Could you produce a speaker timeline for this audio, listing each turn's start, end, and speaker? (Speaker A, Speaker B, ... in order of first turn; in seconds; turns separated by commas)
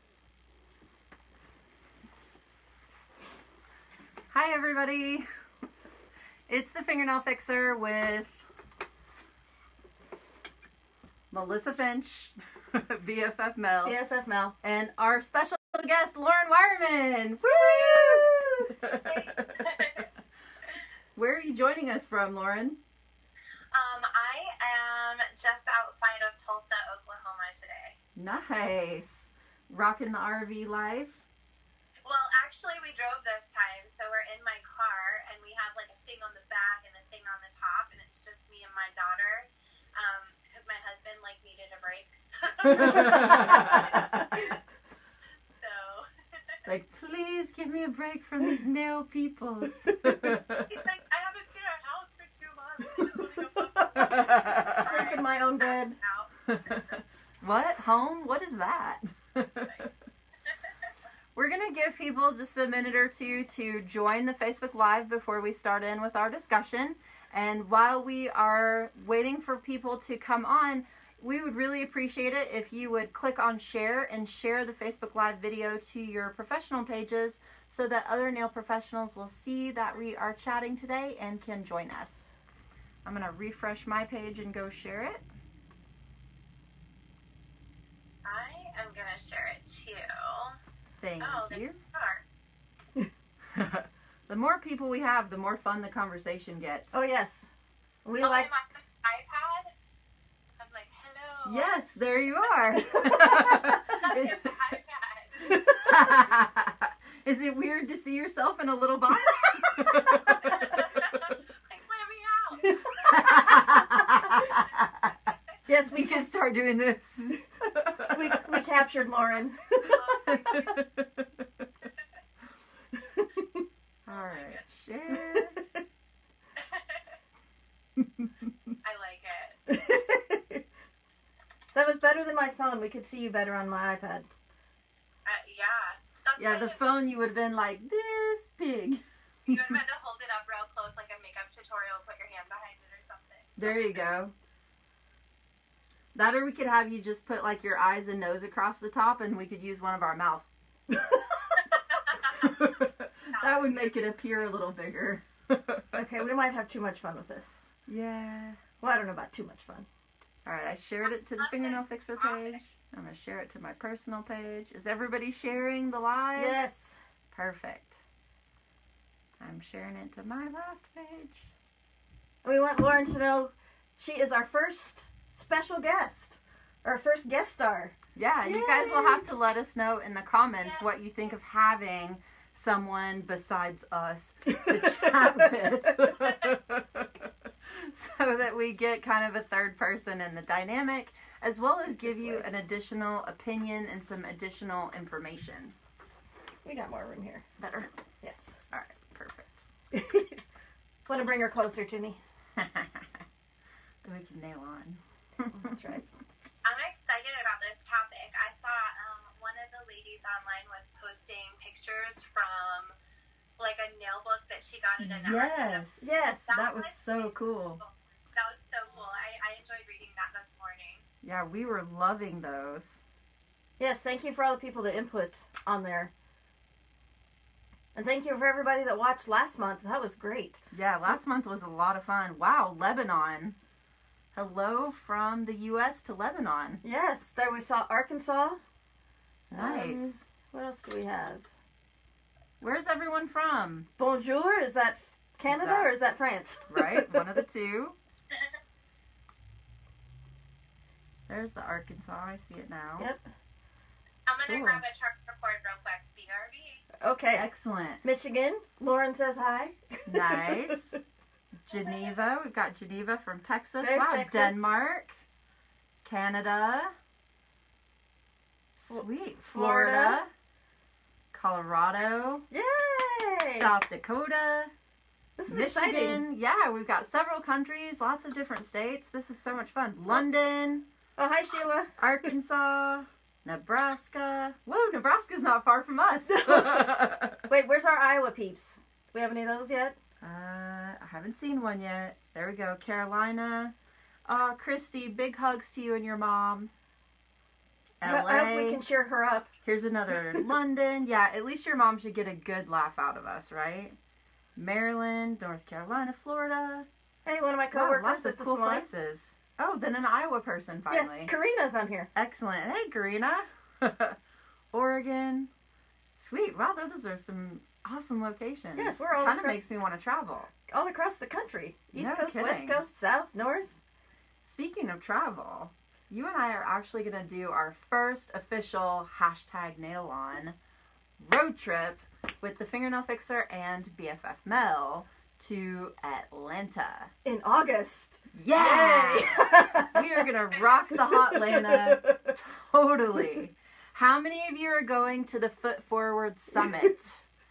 Speaker A: 4.3-5.3, Speaker A: 6.5-8.4, Speaker A: 11.3-13.9, Speaker B: 13.8-14.5, Speaker A: 14.6-20.0, Speaker B: 17.4-18.7, Speaker C: 19.0-20.1, Speaker A: 21.1-22.8, Speaker C: 23.7-28.0, Speaker A: 28.1-31.2, Speaker C: 32.0-44.6, Speaker A: 42.6-44.4, Speaker B: 42.8-44.4, Speaker C: 45.5-46.6, Speaker A: 46.6-50.8, Speaker B: 50.0-50.4, Speaker C: 50.7-56.3, Speaker B: 52.9-56.0, Speaker A: 54.0-55.2, Speaker A: 56.5-59.9, Speaker A: 61.4-82.3, Speaker A: 83.0-85.2, Speaker C: 88.2-90.6, Speaker A: 91.0-91.8, Speaker C: 91.2-92.2, Speaker A: 93.5-97.0, Speaker B: 96.9-97.5, Speaker B: 98.0-98.5, Speaker C: 98.2-99.7, Speaker C: 100.6-101.8, Speaker A: 101.4-104.5, Speaker C: 102.9-105.9, Speaker B: 102.9-103.3, Speaker B: 105.5-106.1, Speaker A: 105.6-111.0, Speaker B: 109.4-110.2, Speaker C: 110.3-113.5, Speaker B: 112.6-114.5, Speaker A: 113.0-115.3, Speaker B: 115.7-116.3, Speaker A: 115.9-118.6, Speaker B: 118.0-120.6, Speaker A: 119.8-121.6, Speaker C: 119.9-120.8, Speaker B: 123.0-123.6, Speaker A: 124.0-125.6, Speaker C: 124.1-124.6, Speaker B: 125.1-125.7, Speaker C: 126.6-127.1, Speaker C: 128.8-129.6, Speaker B: 129.7-130.6, Speaker B: 131.7-134.3, Speaker C: 135.2-136.8, Speaker A: 136.4-139.8, Speaker C: 139.4-144.0, Speaker A: 143.6-144.3, Speaker A: 146.1-151.1, Speaker C: 151.5-154.2, Speaker A: 152.3-156.0, Speaker B: 155.9-157.6, Speaker A: 157.9-158.6, Speaker B: 158.8-159.9, Speaker A: 160.4-166.6, Speaker C: 161.4-162.6, Speaker B: 166.3-166.9, Speaker A: 167.3-168.0, Speaker A: 169.4-171.5, Speaker B: 172.4-177.9, Speaker A: 178.2-195.7, Speaker B: 178.4-179.2, Speaker C: 180.6-180.9, Speaker B: 184.6-185.5, Speaker B: 191.9-192.5, Speaker B: 196.6-197.4, Speaker A: 197.6-197.9, Speaker B: 198.2-198.6, Speaker A: 198.7-199.6, Speaker B: 199.9-200.4, Speaker B: 201.1-202.2, Speaker A: 202.6-203.2, Speaker A: 204.0-205.9, Speaker B: 205.5-206.1, Speaker C: 206.6-212.9, Speaker C: 213.6-221.0, Speaker A: 215.0-217.8, Speaker B: 216.0-216.5, Speaker A: 221.2-223.0, Speaker B: 223.8-226.1, Speaker B: 227.9-230.6, Speaker A: 230.7-233.6, Speaker A: 234.3-236.8, Speaker B: 236.8-238.6, Speaker A: 239.5-240.1, Speaker B: 239.5-241.5, Speaker A: 242.6-243.9, Speaker B: 244.0-247.4, Speaker A: 245.5-245.9, Speaker A: 246.7-247.9, Speaker A: 251.3-253.1, Speaker C: 254.2-256.8, Speaker B: 254.4-254.8, Speaker B: 257.0-257.5, Speaker A: 257.3-258.0, Speaker B: 258.0-260.8, Speaker A: 260.1-260.9, Speaker A: 261.6-265.2, Speaker B: 263.8-264.6, Speaker A: 266.0-266.9, Speaker A: 268.8-270.3, Speaker B: 268.9-270.2, Speaker A: 271.3-272.4, Speaker B: 272.5-273.7, Speaker A: 273.6-274.7, Speaker B: 275.4-276.2, Speaker A: 275.5-280.8, Speaker B: 281.2-282.3, Speaker A: 282.0-287.4, Speaker B: 286.3-286.9, Speaker B: 287.4-290.0, Speaker A: 290.2-293.7, Speaker A: 294.2-296.7, Speaker A: 298.0-298.8, Speaker B: 298.0-299.5, Speaker A: 299.6-303.9, Speaker A: 304.6-306.9, Speaker B: 307.2-308.9, Speaker A: 307.7-311.3, Speaker B: 310.9-312.1, Speaker A: 312.1-314.2, Speaker A: 314.7-315.5, Speaker A: 316.2-320.5, Speaker B: 318.8-319.6, Speaker B: 320.7-323.7, Speaker A: 321.9-322.8, Speaker A: 324.4-330.6, Speaker A: 331.2-337.1, Speaker B: 337.2-340.3, Speaker A: 338.3-347.2, Speaker B: 341.0-342.3